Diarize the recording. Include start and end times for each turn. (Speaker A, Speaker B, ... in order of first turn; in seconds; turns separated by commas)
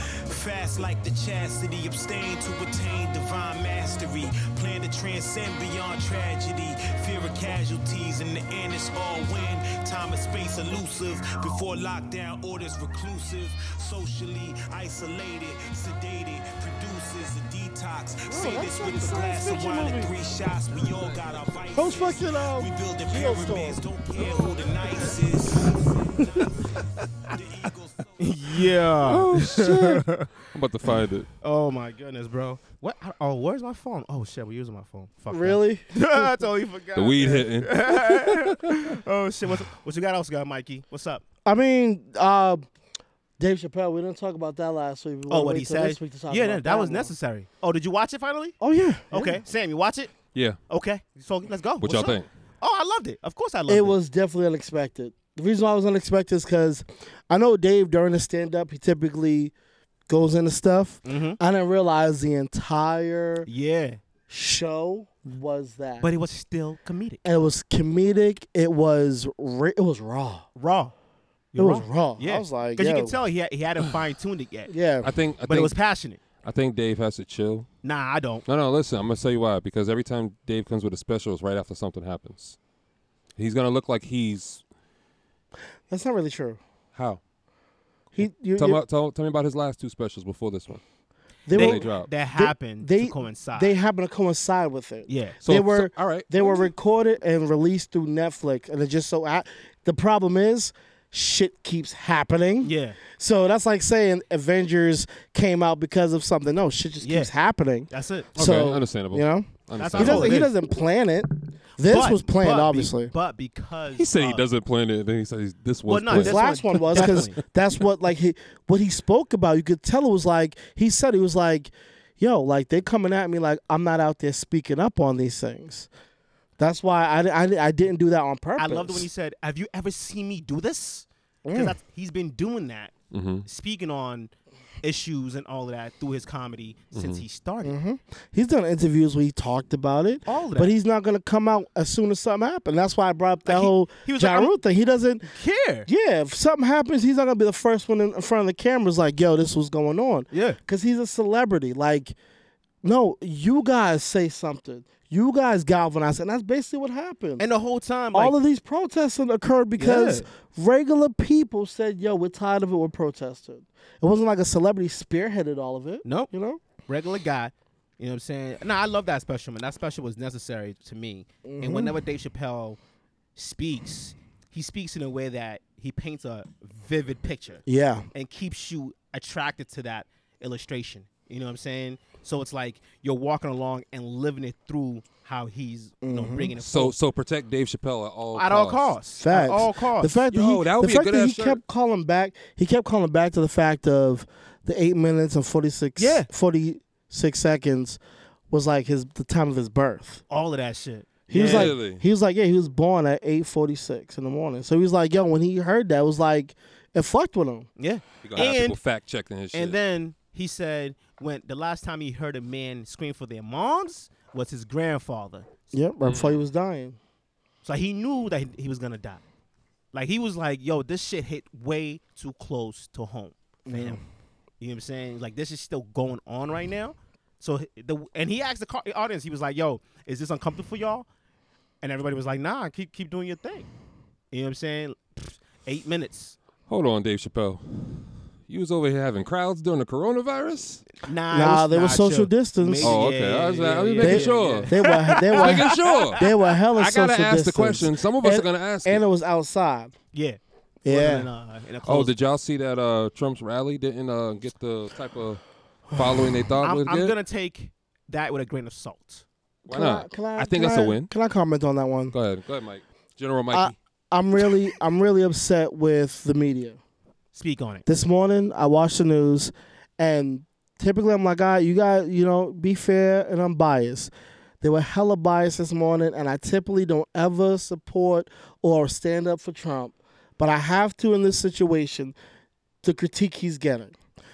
Speaker A: 0.2-28.2, Speaker B: 18.3-20.1, Speaker B: 21.7-23.8, Speaker B: 26.2-26.5, Speaker C: 28.2-30.3, Speaker D: 29.0-31.3, Speaker C: 31.4-41.2, Speaker B: 35.3-35.9, Speaker D: 37.0-38.5, Speaker B: 41.4-42.6, Speaker B: 43.4-47.1, Speaker C: 45.3-48.6, Speaker B: 48.6-49.4, Speaker C: 49.1-50.1, Speaker C: 50.7-54.0, Speaker D: 51.8-52.3, Speaker B: 53.7-59.5, Speaker B: 60.1-63.5, Speaker C: 61.0-61.4, Speaker C: 63.5-64.0, Speaker B: 64.3-66.1, Speaker C: 66.0-67.2, Speaker B: 67.2-70.5, Speaker C: 70.5-70.9, Speaker C: 71.5-74.7, Speaker B: 71.5-73.2, Speaker B: 74.7-75.1, Speaker D: 75.0-75.7, Speaker C: 75.5-76.2, Speaker D: 76.4-77.7, Speaker C: 77.8-78.4, Speaker D: 78.5-82.6, Speaker D: 83.3-84.6, Speaker B: 85.9-86.6, Speaker D: 86.9-87.2, Speaker B: 88.1-88.8, Speaker D: 88.2-90.8, Speaker B: 91.5-113.1, Speaker C: 91.5-93.7, Speaker D: 91.5-92.1, Speaker C: 95.1-95.4, Speaker D: 95.4-96.6, Speaker C: 102.6-103.0, Speaker C: 107.0-107.3, Speaker C: 107.9-108.3, Speaker D: 108.3-110.5, Speaker C: 109.8-110.5, Speaker C: 111.8-114.4, Speaker D: 113.9-117.3, Speaker C: 115.9-117.4, Speaker B: 116.1-125.9, Speaker B: 126.6-129.1, Speaker C: 128.6-132.9, Speaker B: 131.4-131.8, Speaker D: 133.1-133.4, Speaker C: 133.4-137.8, Speaker D: 136.9-137.2, Speaker B: 137.6-145.3, Speaker C: 140.2-140.7, Speaker C: 143.4-144.5, Speaker C: 145.3-145.9, Speaker B: 145.9-152.2, Speaker C: 150.3-150.6, Speaker B: 152.8-157.4, Speaker C: 157.4-158.3, Speaker B: 158.1-166.6, Speaker C: 159.8-160.3, Speaker C: 166.0-166.3, Speaker C: 166.8-172.8, Speaker B: 171.4-171.9, Speaker C: 173.3-186.9, Speaker B: 177.7-178.1, Speaker B: 186.0-186.5, Speaker D: 186.6-188.9, Speaker C: 188.3-190.2, Speaker B: 189.2-198.0, Speaker D: 190.3-191.6, Speaker C: 196.0-196.3, Speaker B: 198.5-200.2, Speaker C: 200.3-201.7, Speaker B: 201.3-207.7, Speaker D: 201.3-202.0, Speaker C: 207.8-208.8, Speaker D: 208.2-209.8, Speaker C: 209.5-215.5, Speaker B: 215.7-217.0, Speaker D: 216.0-216.3, Speaker C: 217.6-219.2, Speaker C: 219.9-224.0, Speaker B: 223.7-224.0, Speaker C: 224.6-231.1, Speaker C: 231.8-233.7, Speaker C: 234.3-236.3, Speaker D: 236.7-240.8, Speaker C: 241.0-246.3, Speaker B: 241.3-243.0, Speaker D: 242.8-244.7, Speaker B: 244.0-249.9, Speaker D: 245.3-249.0, Speaker C: 250.1-252.1, Speaker B: 250.8-251.3, Speaker D: 251.8-257.1, Speaker B: 255.9-256.2, Speaker C: 256.6-259.2, Speaker B: 259.6-262.1, Speaker D: 259.7-261.1, Speaker D: 262.1-263.7, Speaker B: 263.5-266.8, Speaker C: 267.3-267.8, Speaker B: 267.9-282.1, Speaker B: 282.8-283.9